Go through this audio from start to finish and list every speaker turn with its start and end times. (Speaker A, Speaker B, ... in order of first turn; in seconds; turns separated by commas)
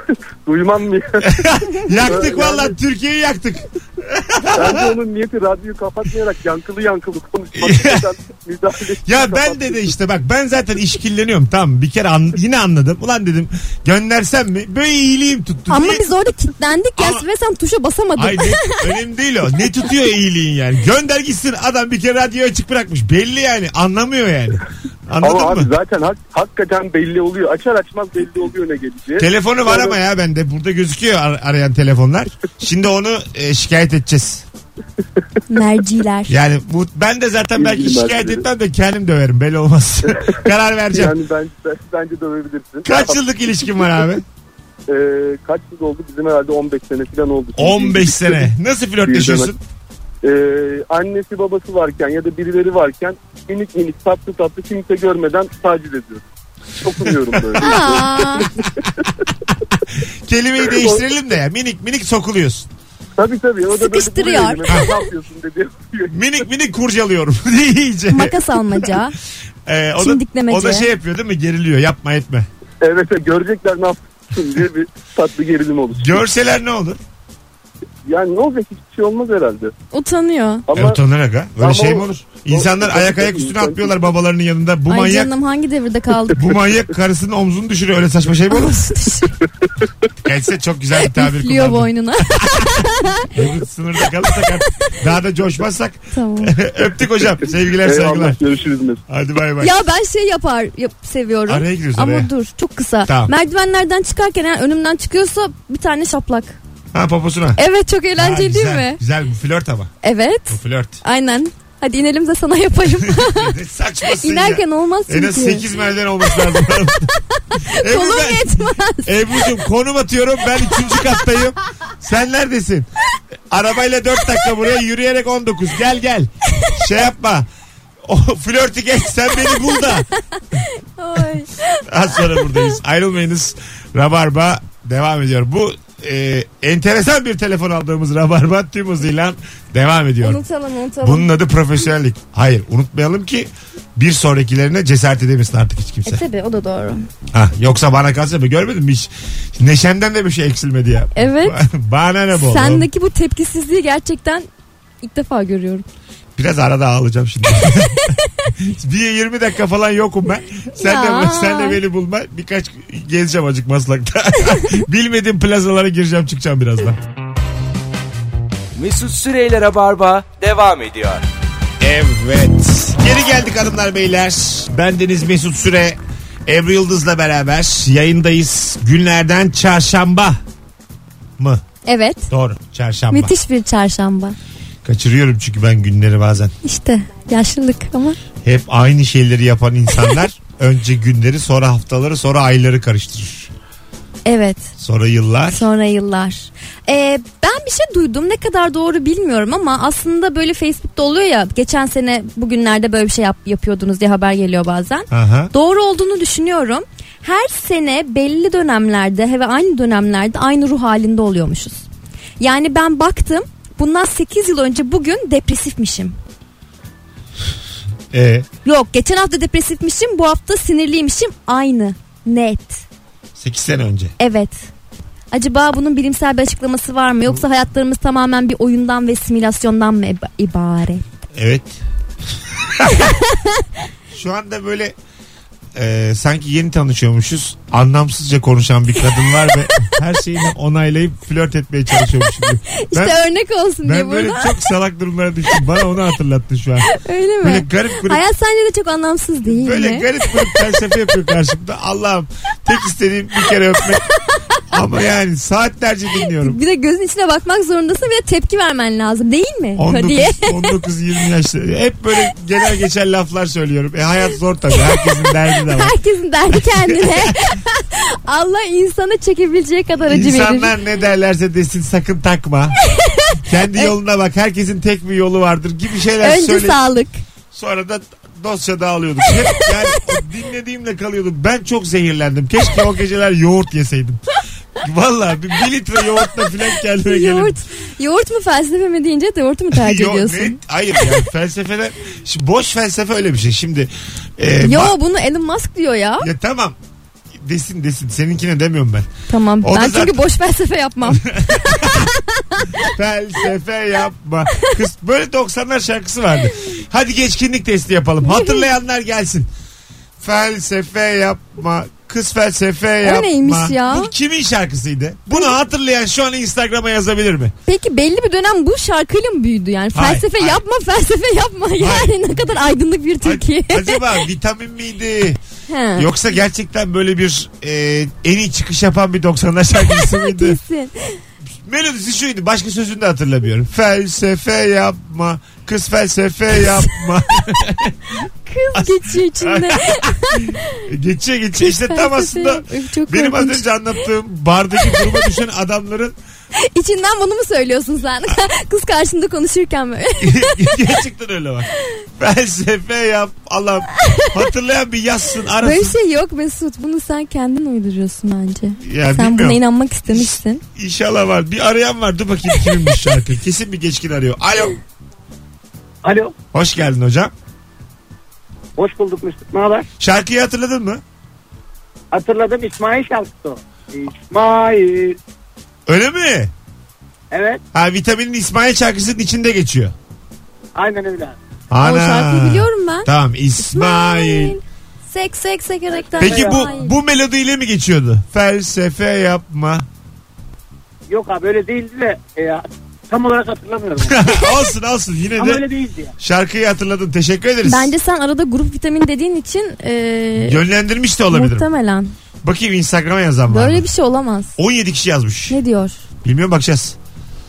Speaker A: 0.4-1.5, Speaker B: 1.2-4.9, Speaker A: 2.0-2.8, Speaker A: 4.5-9.9, Speaker B: 7.6-8.1, Speaker B: 9.1-16.1, Speaker C: 15.7-18.9, Speaker B: 17.0-17.2, Speaker B: 18.2-25.7, Speaker A: 25.2-30.0, Speaker B: 29.2-34.5, Speaker C: 35.5-36.4, Speaker B: 36.3-41.1, Speaker A: 37.6-38.5, Speaker A: 40.9-43.9, Speaker B: 42.9-44.2, Speaker A: 44.9-48.5, Speaker B: 47.6-49.6, Speaker A: 49.0-49.5, Speaker A: 50.2-56.2, Speaker A: 56.8-59.1, Speaker B: 57.4-58.0, Speaker C: 57.6-58.5, Speaker B: 60.3-62.7, Speaker A: 60.6-61.0, Speaker A: 63.2-66.2, Speaker C: 63.7-64.9, Speaker B: 66.1-68.4, Speaker C: 68.1-69.2, Speaker B: 69.7-72.5, Speaker C: 70.0-70.9, Speaker A: 72.8-76.2, Speaker B: 76.0-77.0, Speaker A: 78.0-79.7, Speaker C: 79.9-80.7, Speaker A: 80.7-81.0, Speaker B: 80.7-85.3, Speaker A: 81.6-84.0, Speaker C: 84.9-86.4, Speaker B: 86.3-89.0, Speaker C: 88.5-89.4, Speaker B: 90.2-92.5, Speaker C: 91.0-93.3, Speaker B: 93.3-98.4, Speaker C: 96.1-96.6, Speaker A: 97.8-99.0, Speaker B: 99.1-99.7, Speaker C: 99.6-106.6, Speaker B: 101.5-102.3, Speaker B: 103.1-103.3, Speaker B: 106.9-107.6, Speaker C: 107.6-109.0, Speaker B: 108.2-109.9, Speaker C: 110.0-113.5, Speaker B: 110.5-111.0, Speaker B: 113.0-122.9, Speaker C: 114.1-115.7, Speaker C: 117.4-119.5, Speaker B: 123.5-127.5, Speaker B: 128.0-130.1, Speaker C: 130.4-132.8, Speaker B: 131.9-140.4, Speaker C: 140.2-141.3, Speaker B: 141.0-146.2, Speaker C: 146.1-147.1, Speaker B: 147.3-152.9, Speaker C: 151.2-151.6, Speaker C: 152.3-154.5, Speaker C: 155.0-155.9, Speaker B: 156.4-167.0, Speaker C: 157.6-158.3, Speaker C: 160.8-161.8, Speaker D: 168.8-171.2, Speaker B: 171.8-180.4, Speaker B: 181.4-181.6, Speaker C: 181.9-182.3, Speaker B: 182.3-183.3, Speaker C: 183.1-184.4, Speaker B: 184.8-186.5, Speaker C: 186.6-188.2, Speaker B: 188.4-193.5, Speaker C: 194.2-194.7, Speaker B: 194.8-195.6, Speaker C: 195.5-211.8, Speaker B: 205.1-205.5, Speaker C: 212.4-216.2, Speaker B: 218.1-218.5, Speaker C: 218.7-222.8, Speaker B: 223.4-224.1, Speaker C: 224.2-224.7, Speaker C: 225.3-231.0, Speaker B: 231.3-231.8, Speaker B: 232.6-233.1, Speaker C: 233.0-233.6, Speaker B: 234.1-234.9, Speaker B: 235.8-243.2, Speaker C: 242.8-244.6, Speaker B: 243.8-246.9, Speaker C: 246.9-250.7, Speaker B: 247.4-248.2, Speaker B: 249.5-254.0, Speaker B: 254.7-256.6, Speaker C: 256.3-260.8, Speaker B: 259.8-265.9, Speaker C: 264.7-270.7, Speaker B: 266.5-267.4, Speaker B: 270.1-272.8, Speaker C: 272.9-273.9, Speaker B: 273.5-276.8, Speaker C: 276.2-277.2, Speaker B: 277.5-284.2, Speaker B: 284.8-287.6, Speaker C: 286.5-290.6, Speaker B: 289.7-294.9, Speaker C: 294.6-296.3, Speaker B: 296.2-296.8, Speaker B: 297.4-299.1, Speaker C: 299.3-302.9, Speaker B: 299.6-300.2, Speaker B: 301.1-302.1, Speaker B: 302.8-309.5, Speaker C: 308.2-308.7, Speaker B: 310.2-317.5, Speaker C: 313.0-314.1, Speaker C: 317.7-324.2, Speaker B: 319.9-320.6, Speaker B: 321.8-322.1, Speaker B: 323.2-325.4, Speaker C: 325.7-326.1, Speaker B: 326.0-330.6, Speaker C: 330.1-331.2, Speaker B: 331.6-338.1, Speaker C: 336.6-336.9, Speaker C: 338.5-340.8, Speaker B: 338.7-346.2, Speaker C: 341.6-344.0, Speaker C: 344.8-345.2, Speaker C: 346.6-350.8, Speaker B: 350.2-356.0, Speaker C: 355.6-360.6, Speaker B: 358.8-364.8, Speaker E: 366.0-366.3, Speaker B: 366.5-367.3, Speaker E: 368.8-369.9, Speaker B: 370.0-371.0, Speaker E: 372.1-375.2, Speaker B: 375.9-376.5, Speaker E: 377.3-377.6, Speaker B: 377.7-379.9, Speaker E: 380.8-381.4, Speaker B: 381.7-384.6, Speaker C: 381.8-386.9, Speaker E: 385.9-386.7, Speaker B: 386.2-389.9, Speaker E: 391.1-394.2, Speaker B: 394.0-395.6, Speaker E: 395.4-396.1, Speaker B: 396.2-397.9, Speaker C: 397.6-400.6, Speaker B: 400.4-401.7, Speaker C: 401.3-402.1, Speaker B: 402.4-403.9, Speaker C: 403.5-404.5, Speaker B: 404.6-405.6, Speaker C: 405.5-406.0, Speaker B: 406.2-407.0